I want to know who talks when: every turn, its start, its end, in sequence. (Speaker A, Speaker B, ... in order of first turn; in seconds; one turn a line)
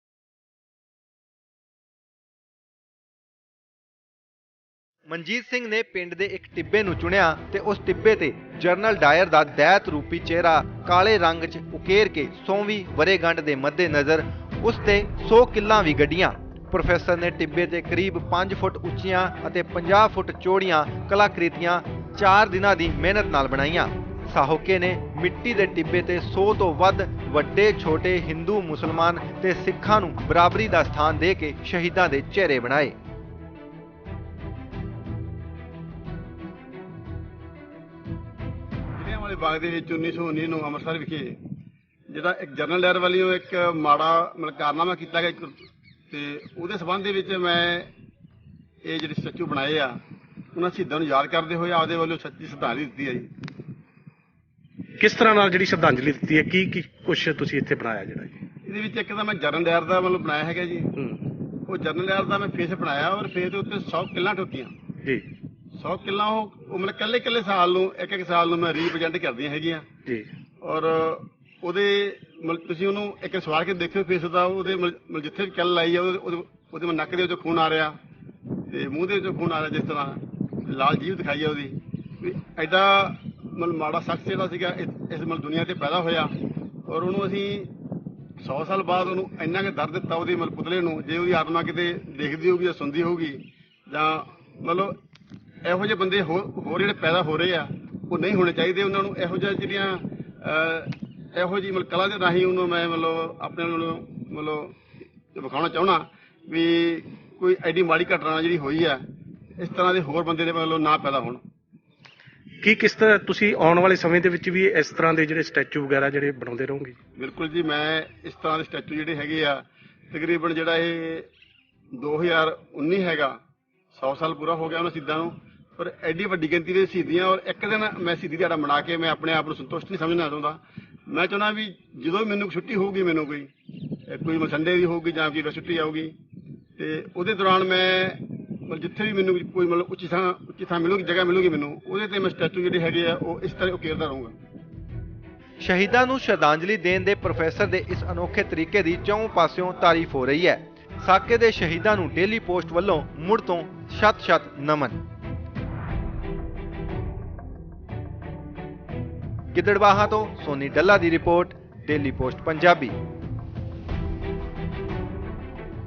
Speaker A: 5.1-33.0
Speaker B: 39.0-41.4
Speaker B: 42.1-47.9
Speaker B: 48.8-50.0
Speaker B: 50.5-53.3
Speaker C: 55.0-58.4
Speaker B: 58.6-60.9
Speaker B: 61.7-64.7
Speaker B: 65.8-69.9
Speaker B: 70.6-78.0
Speaker B: 78.7-86.3
Speaker B: 86.9-87.7
Speaker B: 88.4-95.0
Speaker B: 95.6-104.8
Speaker B: 105.3-109.0
Speaker B: 109.6-111.4
Speaker C: 112.6-117.0
Speaker B: 117.2-121.3
Speaker B: 121.9-123.4
Speaker B: 123.9-133.5
Speaker B: 134.1-136.2
Speaker B: 136.8-144.3
Speaker A: 145.6-155.0
Speaker A: 159.5-162.9